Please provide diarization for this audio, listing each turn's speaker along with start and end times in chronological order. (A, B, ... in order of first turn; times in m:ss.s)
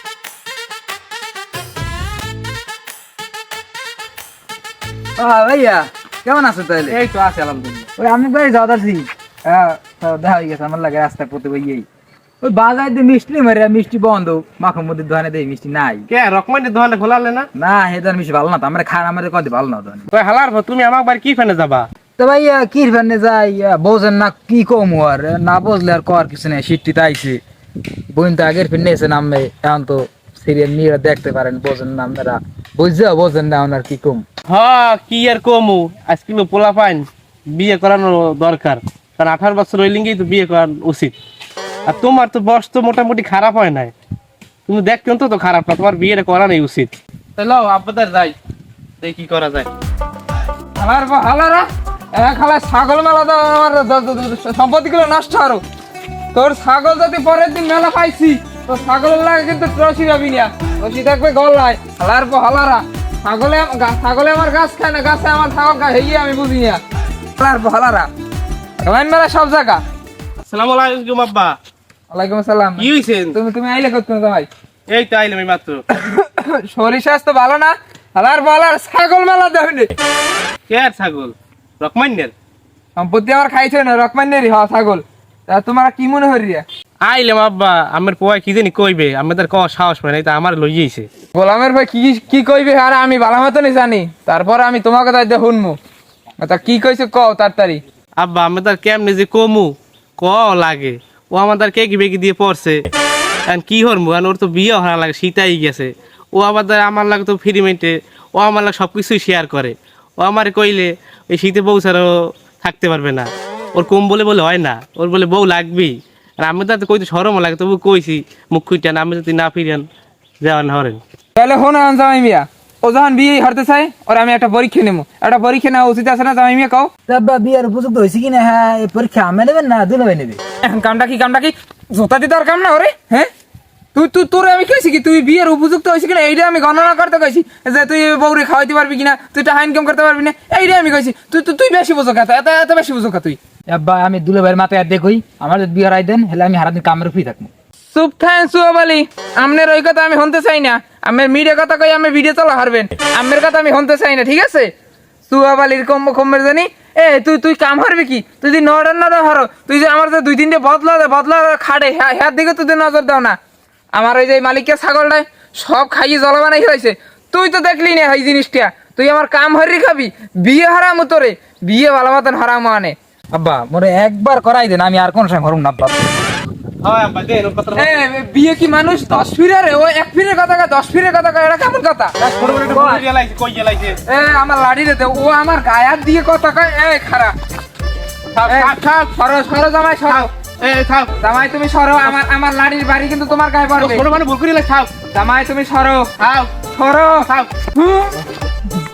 0:05.2-0:07.0 A
0:06.9-0:07.9 B
0:08.0-0:11.8 A
0:12.4-0:16.1 A
0:16.1-0:17.5 B
0:17.5-0:20.1 A
0:20.1-0:21.9 B
0:22.2-0:27.4 A
0:28.1-0:34.2 A
0:34.5-0:41.2 B
0:41.8-0:43.9 B
0:44.7-0:48.4 B
0:49.0-0:49.7 B
0:50.8-0:55.6 C
0:56.3-1:06.8 C
1:07.4-1:08.1 C
1:08.8-1:09.8 C
1:10.4-1:11.6 B
1:12.1-1:14.5 C
1:12.8-1:13.4 B
1:14.9-1:15.8 B
1:15.9-1:19.9 C
1:20.7-1:22.3 B
1:23.0-1:26.6 C
1:27.0-1:31.1 B
1:31.3-1:35.8 C
1:36.4-1:37.8 C
1:38.2-1:42.8 B
1:43.5-1:59.8 B
2:00.4-2:01.0 B
2:01.4-2:06.9 C
2:07.1-2:10.4 A
2:10.6-2:13.3 C
2:13.9-2:23.4 C
2:23.7-2:27.5 A
2:27.9-2:34.7 C
2:35.3-2:43.4 C
2:43.9-2:52.9 C
2:53.3-2:56.2 A
2:56.8-2:58.0 B
2:57.7-3:02.1 C
3:02.2-3:04.0 B
3:02.7-3:03.0 C
3:04.0-3:07.3 C
3:08.3-3:09.1 B
3:08.4-3:10.3 C
3:10.1-3:11.2 B
3:11.2-3:14.0 C
3:13.8-3:14.9 B
3:15.1-3:16.1 C
3:16.2-3:16.5 B
3:16.7-3:18.2 C
3:17.1-3:17.5 B